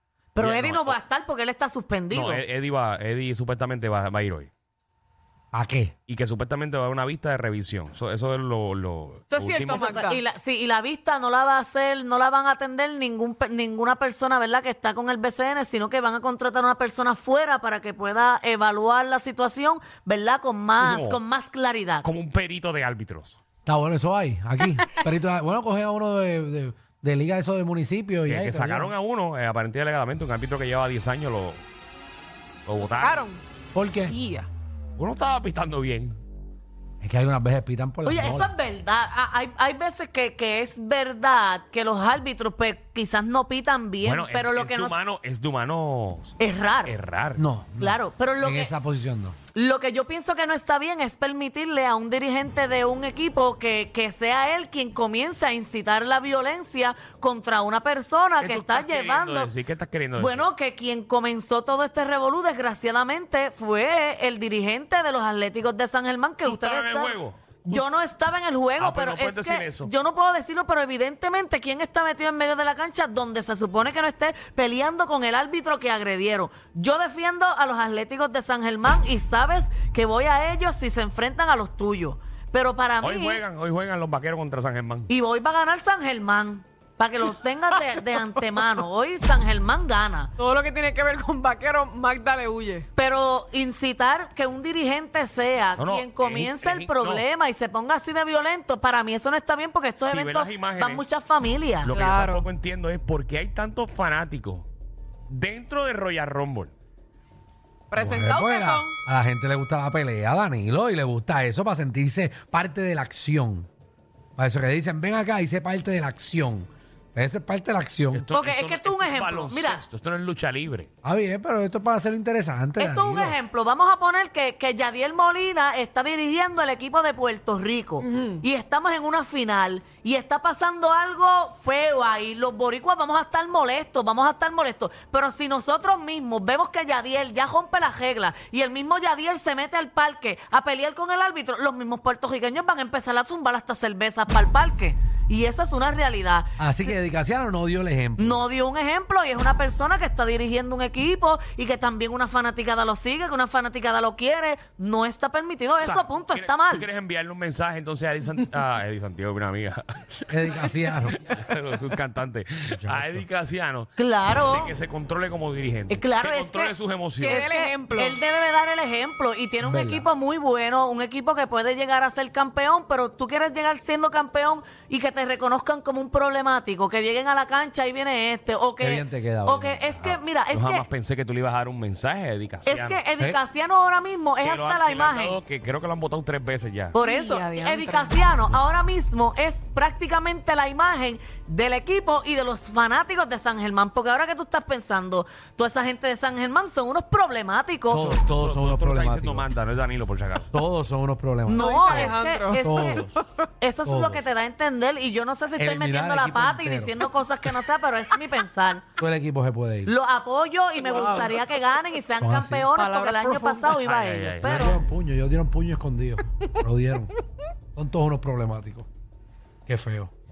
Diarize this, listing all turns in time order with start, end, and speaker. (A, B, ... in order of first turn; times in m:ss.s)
0:00.3-0:02.4 A
0:00.4-0:01.0 B
0:02.1-0:04.5 B
0:05.5-0:05.9 C
0:06.1-0:09.8 B
0:09.3-0:10.2 D
0:09.7-0:22.1 A
0:20.8-0:21.2 B
0:22.0-0:23.4 B
0:23.6-0:28.9 C
0:28.3-0:31.6 B
0:32.6-0:33.2 B
0:32.8-0:33.4 D
0:33.7-0:34.1 C
0:34.0-0:34.5 D
0:35.0-0:36.2 B
0:37.0-0:38.5 C
0:38.0-0:45.0 A
0:44.0-0:47.4 B
0:46.4-0:46.9 A
0:47.4-0:49.4 C
0:47.8-0:48.7 A
0:49.5-0:59.5 A
0:58.4-1:00.5 B
1:00.2-1:23.4 A
1:06.4-1:07.4 B
1:08.8-1:09.9 B
1:23.0-1:25.1 B
1:25.1-1:30.3 A
1:27.8-1:28.7 D
1:30.4-1:32.9 D
1:33.0-1:41.9 A
1:35.8-1:37.2 B
1:40.0-1:41.0 B
1:41.8-1:44.7 B
1:41.9-1:42.4 D
1:45.3-1:46.7 B
1:47.9-1:49.0 D
1:47.9-1:53.7 C
1:54.4-1:58.3 C
1:58.1-2:00.9 B
1:58.3-1:59.8 A
2:01.0-2:03.4 C
2:02.8-2:26.9 A
2:08.0-2:08.4 D
2:26.6-2:28.4 C
2:28.2-2:36.8 A
2:35.8-2:47.5 B
2:40.3-2:41.2 C
2:42.7-2:43.2 C
2:44.0-2:44.7 A
2:45.9-3:00.8 A
2:47.2-2:48.2 D
2:49.6-2:50.1 C
2:58.8-2:59.8 C
3:00.0-3:03.0 B
3:02.6-3:05.4 A
3:04.4-3:07.0 B
3:06.9-3:18.1 A
3:07.0-3:08.2 D
3:17.9-3:19.5 C
3:18.0-3:20.5 B
3:20.5-3:23.2 C
3:21.4-3:23.0 A
3:21.6-3:23.4 D
3:23.6-3:28.8 A
3:23.8-3:24.2 C
3:25.6-3:27.0 C
3:29.0-3:29.9 C
3:29.8-3:34.8 A
3:30.8-3:31.4 C
3:32.2-3:32.7 C
3:32.7-3:33.8 D
3:33.8-3:34.7 B
3:34.4-3:37.1 C
3:37.7-3:38.9 C
3:39.7-3:40.1 C